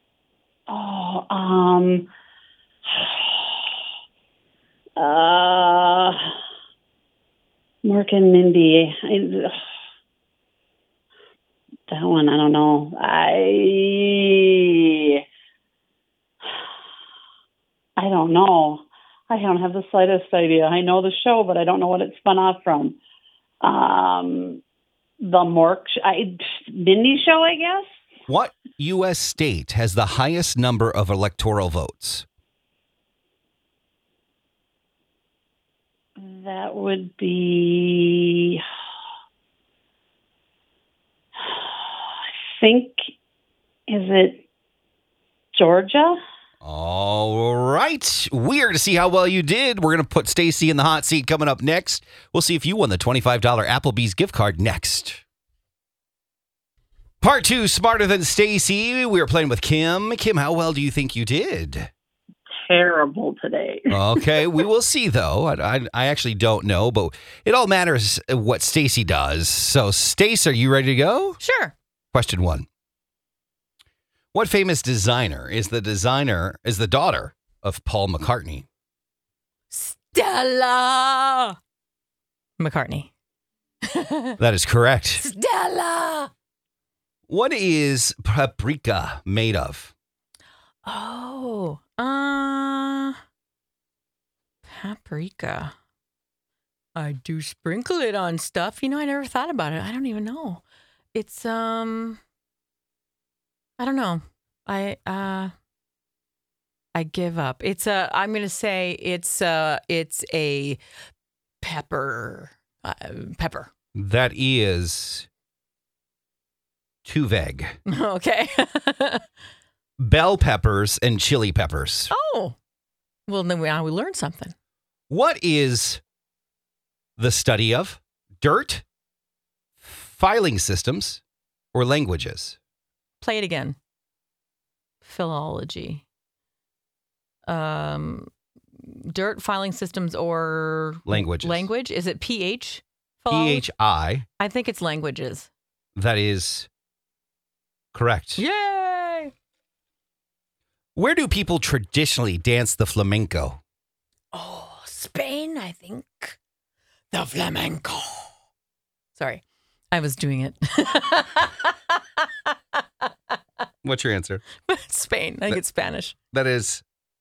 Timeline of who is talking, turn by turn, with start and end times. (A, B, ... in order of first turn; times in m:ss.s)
0:00.7-0:02.1 A
0:02.9-0:03.6 A
0:05.0-0:06.3 A
0:07.8-0:09.6 A
0:11.9-0:15.2 A
0:18.0-0:23.0 A
0:23.6-0:24.6 A
0:25.2-0:27.9 A
0:28.3-0:32.2 B
0:36.2-0:38.6 A
0:42.5-0:43.1 A
0:43.9-0:44.4 A
0:45.6-0:46.2 A
0:46.6-0:55.2 B
0:57.2-1:01.9 B
1:02.6-1:04.6 A
1:03.9-1:11.4 B
1:11.4-1:11.7 C
1:12.1-1:12.6 B
1:14.3-1:18.6 B
1:19.7-1:21.6 C
1:22.6-1:23.1 C
1:23.9-1:24.4 C
1:24.4-1:25.2 B
1:25.2-1:26.3 C
1:27.3-1:29.9 B
1:30.8-1:33.2 C
1:34.7-1:35.7 C
1:37.0-1:40.6 C
1:41.1-1:42.2 C
1:43.8-1:45.5 C
1:46.9-1:50.8 C
1:51.6-1:53.7 C
1:53.9-1:55.3 B
1:57.0-1:57.8 B
1:57.9-1:59.2 C
2:00.0-2:02.1 B
2:02.1-2:02.6 C
2:03.3-2:04.5 C
2:05.1-2:06.0 B
2:07.2-2:08.8 B
2:09.8-2:11.2 B
2:11.7-2:12.6 B
2:13.2-2:13.8 C
2:15.0-2:16.0 C
2:17.5-2:23.6 C
2:21.1-2:21.7 B
2:23.3-2:24.2 B
2:24.4-2:25.5 C
2:26.0-2:26.7 B
2:27.9-2:28.4 B
2:28.4-2:29.3 C
2:31.0-2:33.6 B
2:34.3-2:36.4 C
2:37.1-2:38.3 C
2:39.2-2:43.1 C
2:43.8-2:44.4 B
2:44.7-2:46.1 C
2:46.3-2:46.8 B